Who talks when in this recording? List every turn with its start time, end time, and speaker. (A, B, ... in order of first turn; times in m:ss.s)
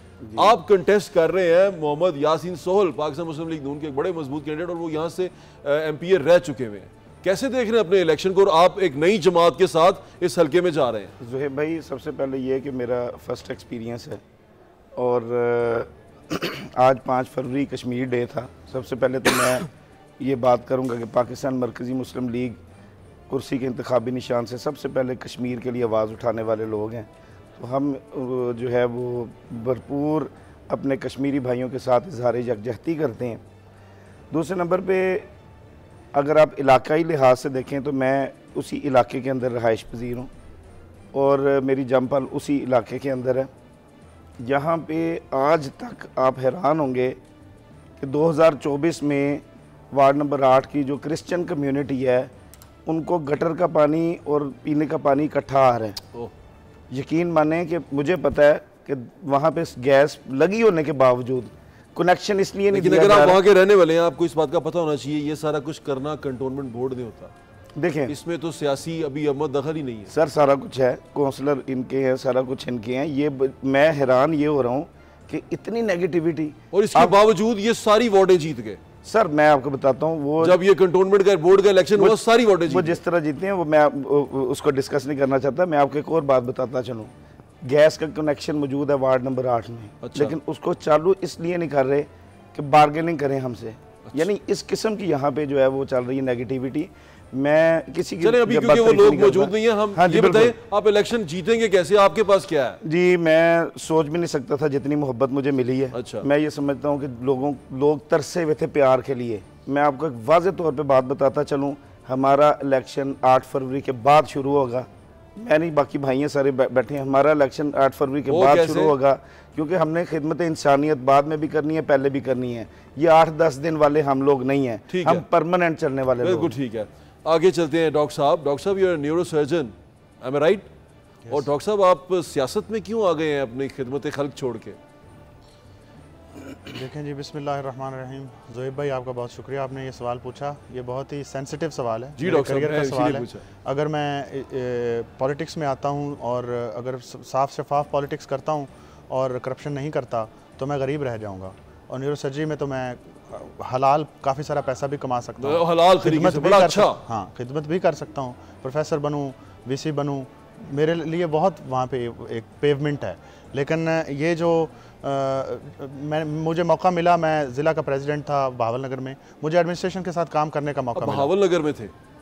0:00.4-0:11.1 A
0:11.2-0:14.2 B
0:15.0-0:19.7 B
0:20.2-0:22.6 B
0:23.3-0:33.4 B
0:34.3-0:35.3 B
0:36.1-0:40.3 B
0:41.1-0:43.5 B
0:44.4-0:47.2 B
0:48.0-0:52.3 B
0:52.8-0:56.0 B
0:56.9-1:03.4 B
1:02.7-1:07.3 A
1:07.8-1:08.1 B
1:08.1-1:10.1 A
1:10.1-1:17.2 B
1:16.7-1:18.8 A
1:19.0-1:20.6 B
1:20.4-1:23.0 A
1:22.0-1:40.5 B
1:30.0-1:30.4 A
1:38.2-1:42.8 A
1:42.8-2:06.5 B
1:45.9-1:46.3 A
1:58.3-1:58.9 A
2:04.9-2:05.2 A
2:06.2-2:10.7 A
2:11.3-2:14.8 A
2:16.7-2:51.3 C
2:22.2-2:23.4 A
2:35.4-2:37.0 A
2:51.0-2:51.9 A